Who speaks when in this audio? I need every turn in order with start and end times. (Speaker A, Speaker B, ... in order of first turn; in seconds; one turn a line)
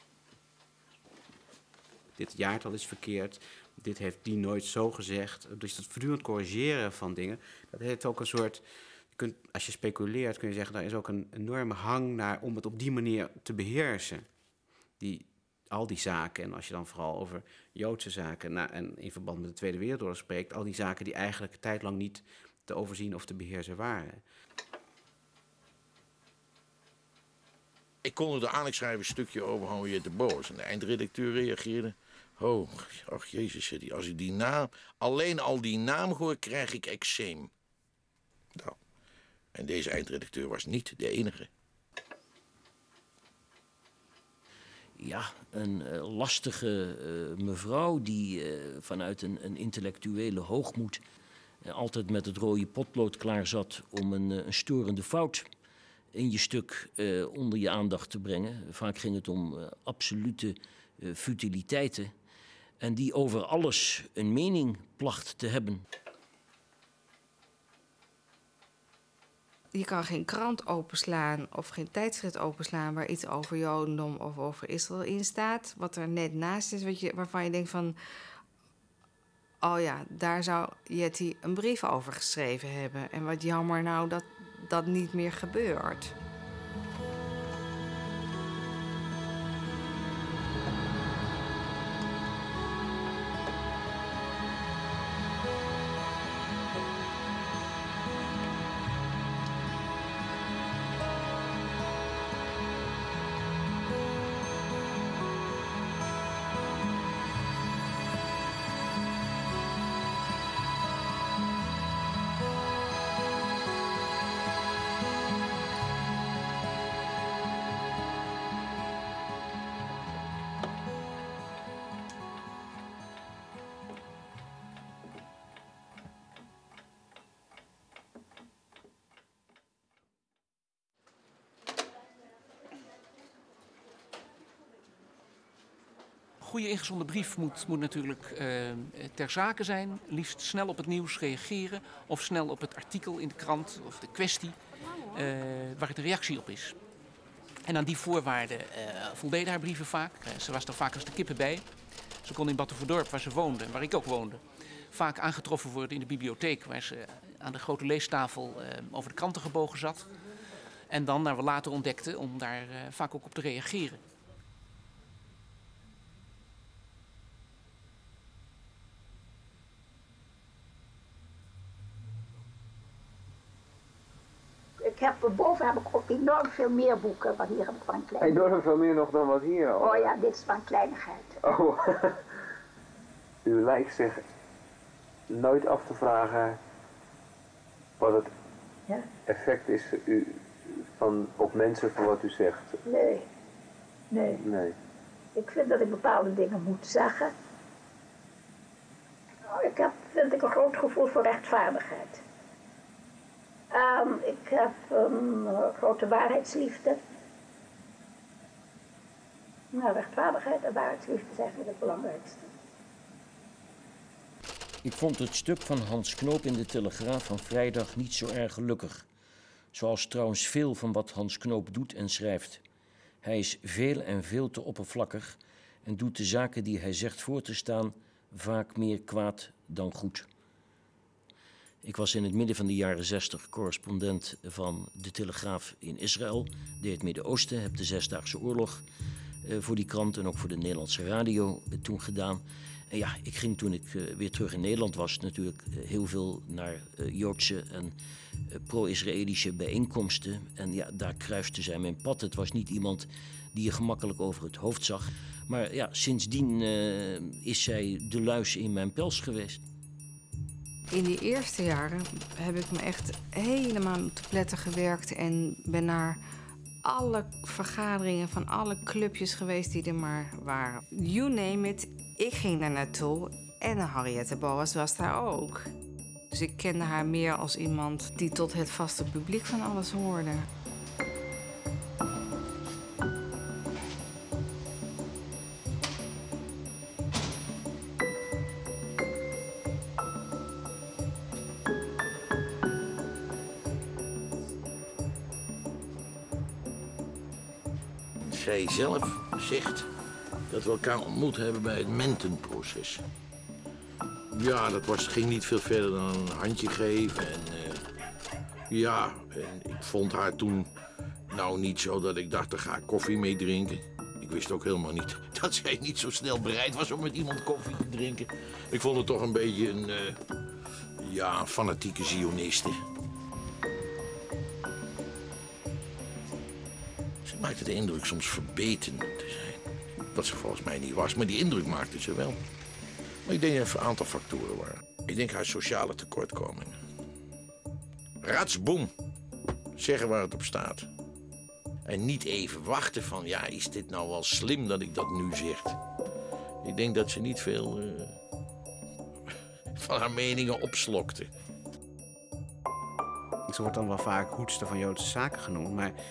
Speaker A: 2.2-8.6
Speaker A: 9.1-14.3
Speaker A: 15.0-24.2
Speaker B: 28.0-37.5
Speaker B: 39.5-41.5
Speaker C: 45.0-51.0
Speaker C: 51.6-55.5
Speaker C: 56.1-62.1
Speaker C: 62.8-65.8
Speaker D: 69.7-78.0
Speaker D: 79.6-86.1
Speaker E: 136.4-144.6
Speaker E: 145.1-146.8
Speaker E: 147.7-151.7
Speaker E: 152.2-160.1
Speaker E: 160.9-164.0
Speaker F: 174.8-178.4
Speaker G: 178.2-180.2
Speaker F: 179.8-181.4
Speaker G: 181.4-182.2
Speaker G: 183.4-184.3
Speaker G: 185.3-186.6
Speaker G: 188.0-188.3
Speaker G: 189.3-192.8
Speaker F: 192.9-193.2
Speaker F: 194.1-194.4
Speaker G: 194.4-194.8
Speaker F: 195.4-197.3
Speaker F: 199.5-202.2
Speaker F: 203.7-207.0
Speaker F: 209.7-212.5
Speaker C: 214.8-219.1
Speaker C: 219.7-222.6
Speaker C: 223.2-230.3
Speaker C: 231.8-238.8
Speaker C: 239.4-247.9
Speaker C: 248.5-259.6
Speaker D: 260.9-266.2
Speaker D: 266.8-275.7
Speaker D: 276.3-280.5
Speaker B: 298.2-299.9
Speaker B: 300.5-303.0
Speaker B: 304.3-307.8
Speaker B: 308.7-310.7
Speaker B: 311.3-320.2
Speaker B: 321.0-322.8
Speaker B: 327.2-329.6
Speaker B: 330.1-332.4
Speaker B: 333.3-336.8
Speaker B: 338.2-338.9
Speaker B: 339.8-340.9
Speaker B: 341.9-345.8
Speaker B: 346.6-348.2
Speaker B: 349.8-351.3
Speaker A: 353.5-356.0